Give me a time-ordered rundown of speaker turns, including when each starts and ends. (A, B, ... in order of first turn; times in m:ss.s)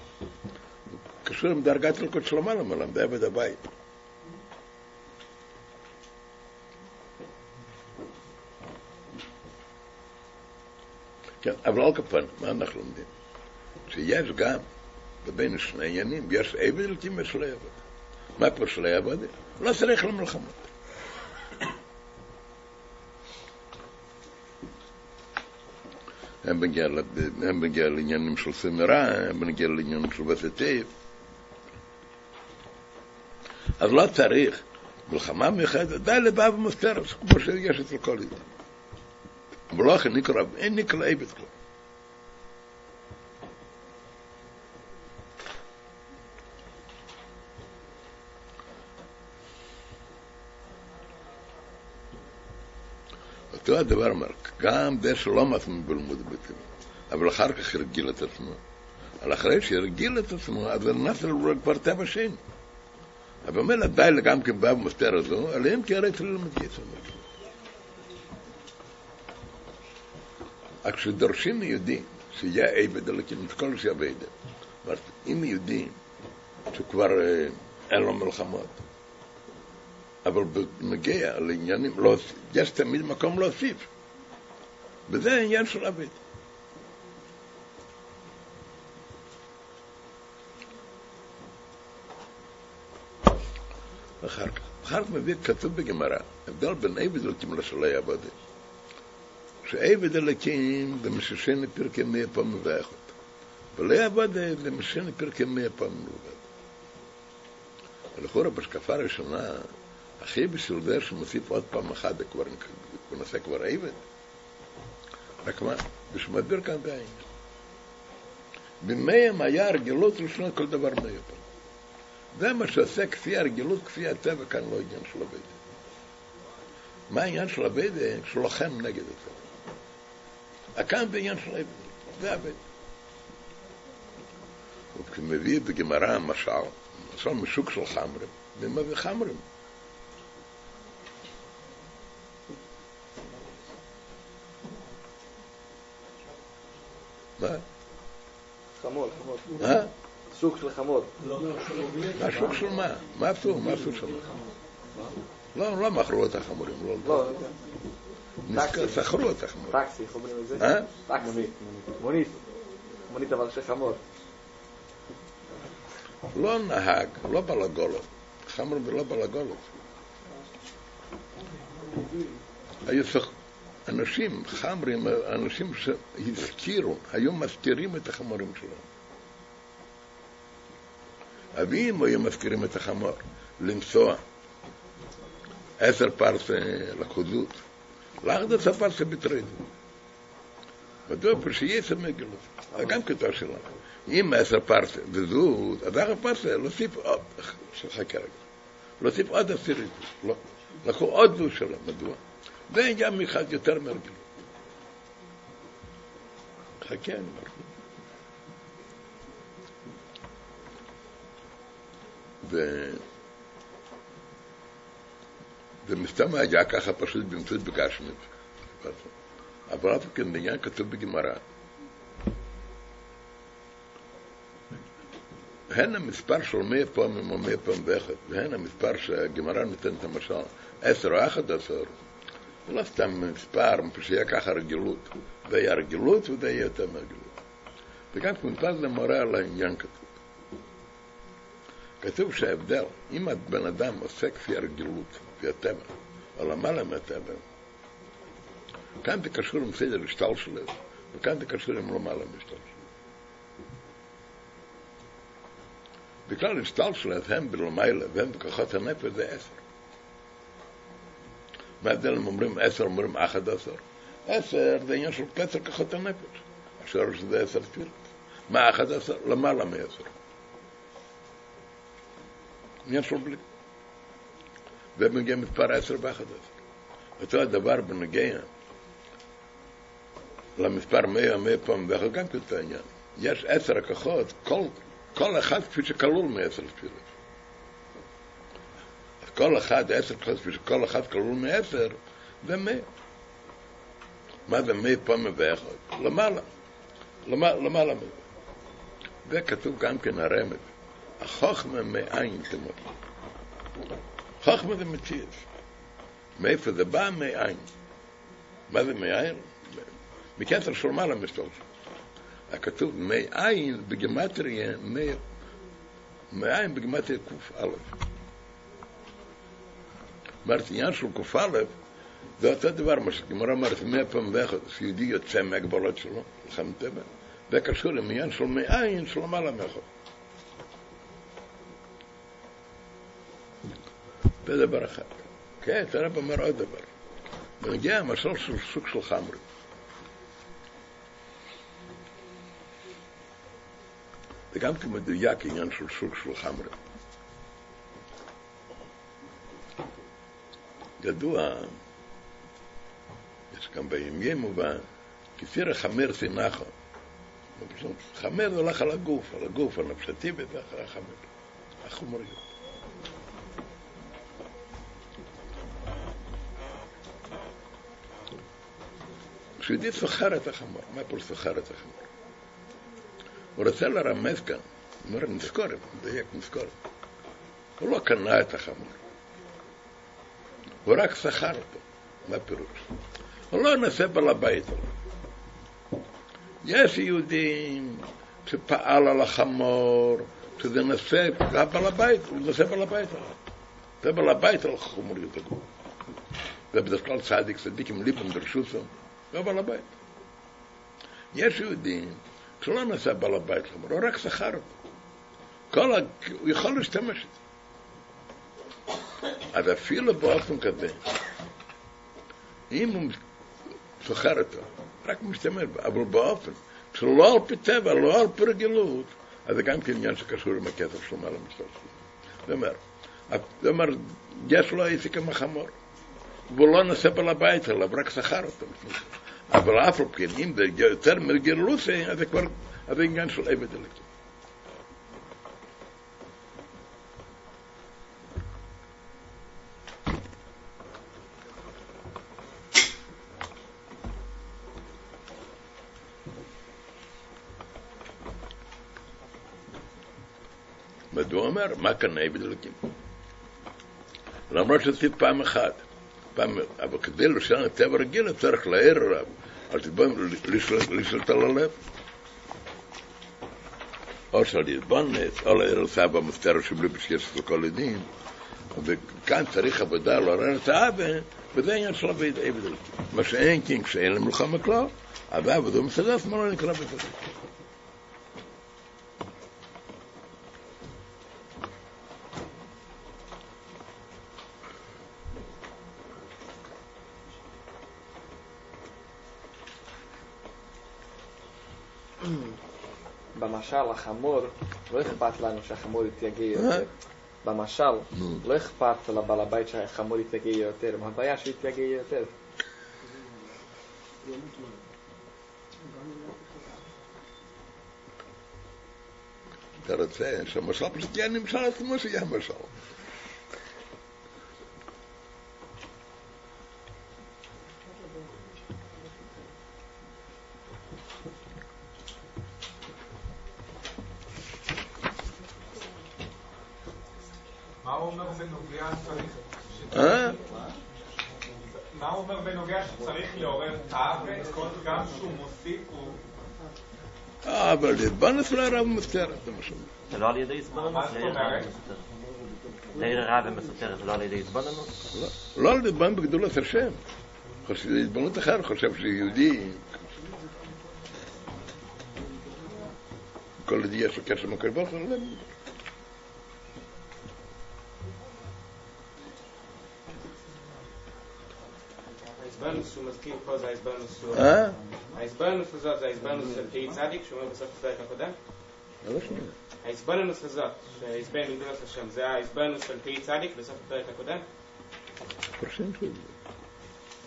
0:01.2-0:03.6 A
0:11.4-0:13.1 A
0:13.9-0:14.6 A
0:15.2-0:17.8 A
0:18.4-0:20.7 A
0:26.4-0:30.9 A
0:33.8-0:38.4 A
0:39.7-0:41.5 A
0:53.5-0:58.6 A
0:59.2-1:02.4 A
1:03.4-1:07.2 A
1:10.8-1:14.3 A
1:14.8-1:16.0 A
1:16.7-1:18.8 A
1:20.2-1:23.9 A
1:25.1-1:26.2 A
1:34.2-1:38.3 A
1:39.6-1:43.1 A
1:43.7-1:46.4 A
1:48.1-1:54.0 A
1:55.4-1:57.2 A
1:58.8-2:01.4 A
2:02.3-2:05.6 A
2:07.1-2:09.4 A
2:10.8-2:12.6 A
2:14.9-2:19.4 A
2:27.4-2:27.6 A
2:28.8-2:29.6 B
2:29.6-2:29.9 A
2:30.3-2:31.1 B
2:32.0-2:34.4 A
2:35.5-2:37.3 A
2:37.0-2:37.6 B
2:38.4-2:39.8 A
2:38.5-2:39.0 B
2:39.7-2:42.4 B
2:40.6-2:40.9 A
2:43.1-2:44.0 B
2:46.3-2:49.7 A
2:52.8-2:53.3 A
2:53.8-2:58.8 A
3:01.5-3:04.2 A
3:05.8-3:07.6 A
3:08.2-3:09.7 A
3:11.1-3:18.4 A
3:19.0-3:24.2 A
3:26.8-3:27.6 A
3:32.4-3:33.0 A
3:35.8-3:39.1 A
3:39.7-3:41.4 A
3:45.7-3:51.9 A
3:52.7-3:57.3 A
3:58.1-4:00.0 A
4:02.0-4:07.4 A
4:09.0-4:12.8 A
4:16.3-4:19.6 A
4:21.8-4:30.1 A
4:32.8-4:33.4 A
4:35.0-4:36.6 A
4:37.2-4:38.5 A
4:40.6-4:47.1 A
4:49.2-4:52.9 A
4:54.5-4:56.4 A
4:57.2-4:58.2 A
4:59.2-5:02.8 A
5:04.4-5:05.4 A
5:06.4-5:07.7 A
5:08.7-5:09.5 A
5:10.4-5:11.6 A
5:12.5-5:15.2 A
5:16.3-5:17.9 A
5:20.4-5:21.7 A
5:22.4-5:29.8 A
5:34.4-5:36.9 A
5:37.6-5:39.4 A
5:44.5-5:46.7 A
5:51.0-5:51.8 A
5:53.5-5:54.8 A
5:55.4-5:56.7 A
5:57.6-6:01.2 A
6:01.8-6:02.4 A
6:09.6-6:12.1 A
6:13.6-6:16.7 A
6:17.8-6:19.0 A
6:20.8-6:22.9 A
6:23.5-6:24.9 A
6:26.6-6:33.3 A
6:34.0-6:35.6 A
6:36.7-6:39.9 A
6:41.3-6:44.7 A
6:45.7-6:47.4 A
6:49.5-6:51.0 A
6:52.7-6:53.2 A
6:54.0-7:01.9 A
7:02.4-7:05.7 A
7:06.5-7:14.0 A
7:31.1-7:32.8 A
7:34.5-7:35.8 A
7:36.3-7:41.8 A
7:44.3-7:48.1 A
7:48.7-7:57.2 A
8:13.3-8:16.9 B
8:16.6-8:16.8 A
8:17.4-8:22.3 B
8:29.8-8:32.8 A
8:47.8-8:50.3 C
8:49.9-8:50.4 A
8:51.9-8:56.2 C
8:57.4-8:59.9 A
9:00.1-9:02.0 D
9:00.9-9:01.7 C
9:01.2-9:01.5 E
9:02.9-9:04.9 D
9:05.1-9:07.0 A
9:07.6-9:09.8 A
9:13.6-9:15.4 A
9:22.4-9:24.6 E
9:24.3-9:24.8 A
9:25.1-9:28.3 E
9:29.0-9:29.5 A
9:29.8-9:34.4 E
9:35.6-9:36.3 A